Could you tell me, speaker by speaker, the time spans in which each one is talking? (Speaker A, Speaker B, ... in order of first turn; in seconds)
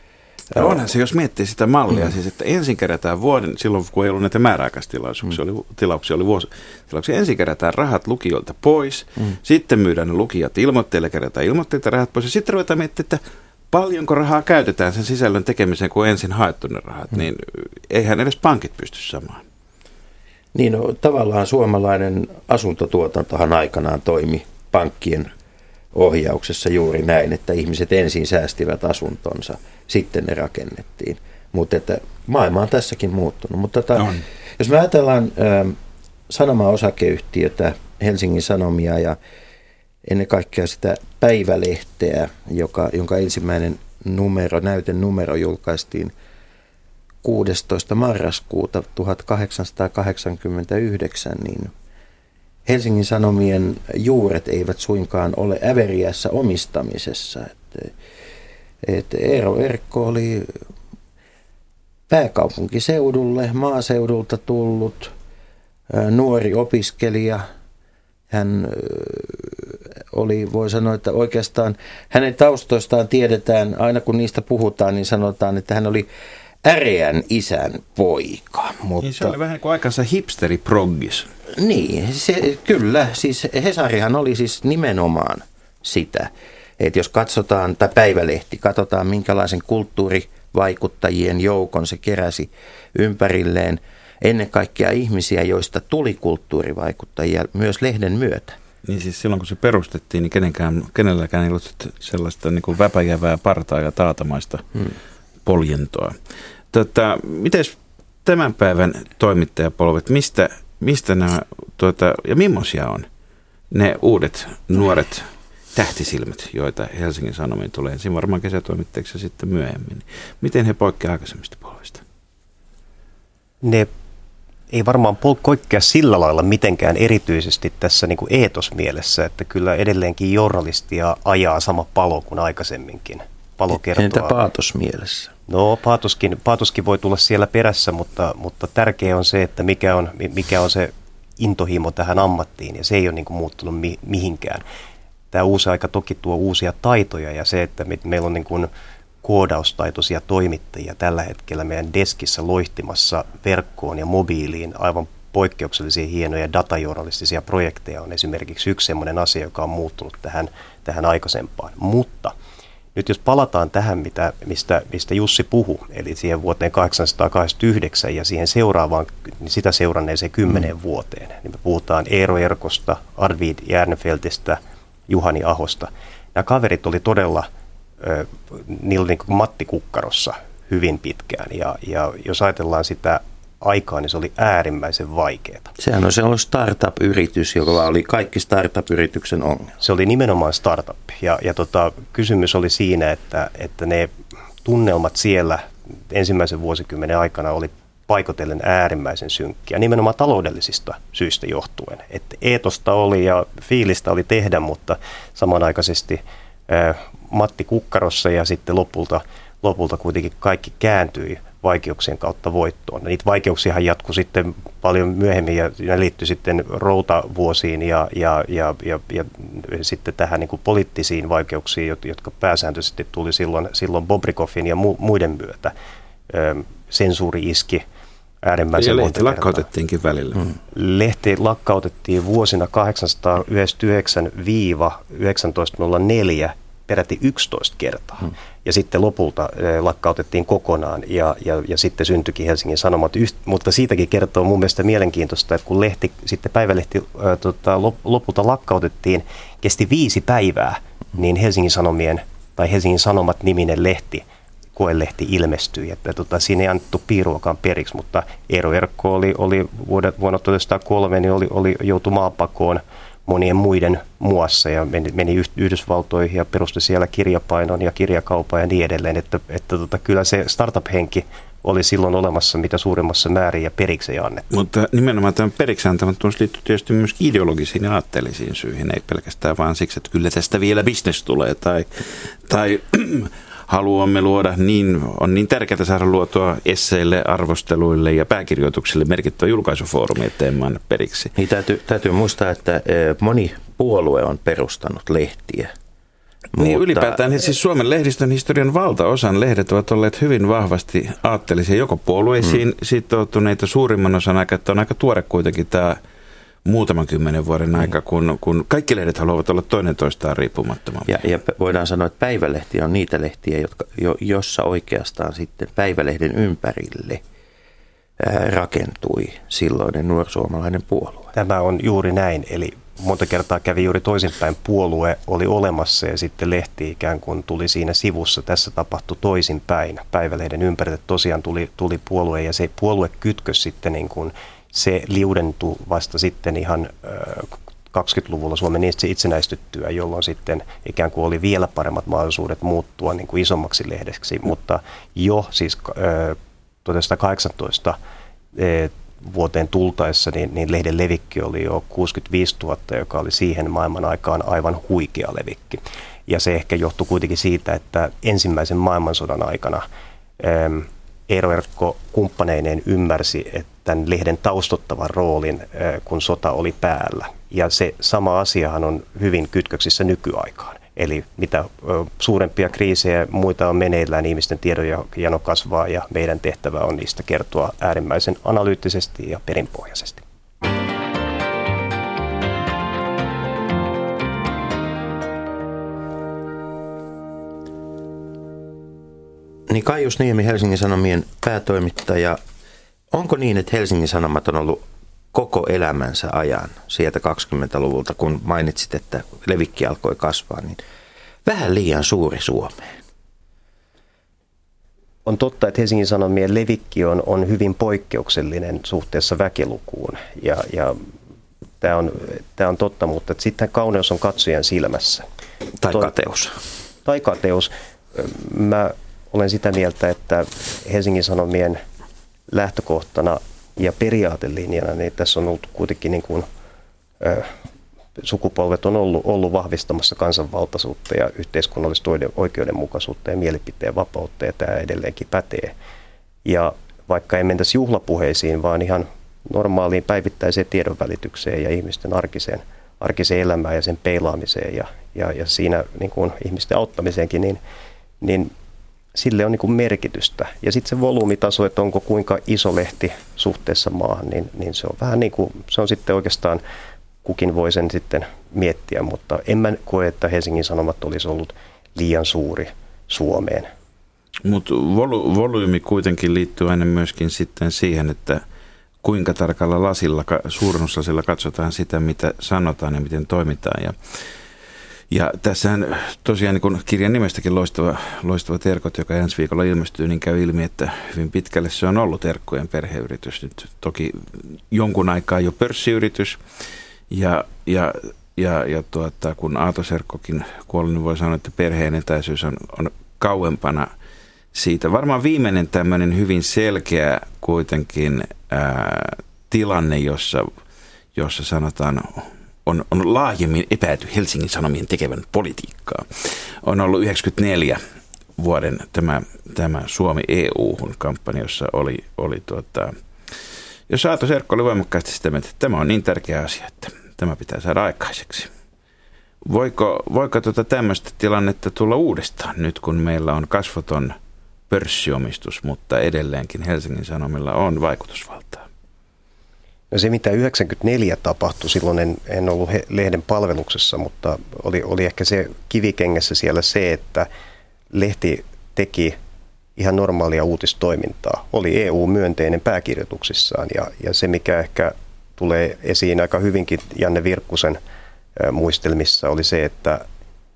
Speaker A: 0.5-19.4, 34.0-34.2, 79.0-81.3, 98.8-104.8, 105.4-106.2, 106.7-113.1, 113.7-122.0, 228.8-230.5, 274.5-291.3, 296.6-306.0, 306.6-311.1, 464.4-468.4, 469.0-474.0, 475.1-486.4, 487.1-493.9, 494.5-500.5, 501.1-507.8, 508.4-512.9, 513.9-518.5, 519.4-524.1, 524.7-528.6
Speaker B: 20.5-25.3, 25.9-35.8, 36.3-39.2, 40.0-46.1, 47.2-51.7, 52.6-57.9, 58.8-60.6, 62.1-65.1, 65.9-67.5, 68.3-76.1, 76.6-79.3, 81.5-98.6, 133.7-135.3, 185.8-189.8, 291.4-295.7, 296.6-297.2, 311.1-317.2, 318.2-321.3, 389.7-392.4, 393.1-400.8, 401.4-402.9, 415.8-416.6
Speaker C: 123.6-123.9, 124.7-134.4, 135.5-144.6, 145.3-148.7, 149.2-162.3, 162.9-177.5, 178.0-185.7, 189.8-194.1, 194.6-225.7, 226.3-227.8, 228.4-229.7, 230.7-254.2, 254.8-274.4, 321.3-348.0, 348.5-359.8, 360.4-380.2, 405.2-411.0, 411.8-415.2, 417.0-421.8, 422.5-426.5, 427.2-427.5, 428.2-435.7, 436.4-447.6, 448.2-448.5, 449.1-456.6, 457.2-463.7, 529.9-537.3, 537.9-539.1, 539.8-547.8, 548.4-550.0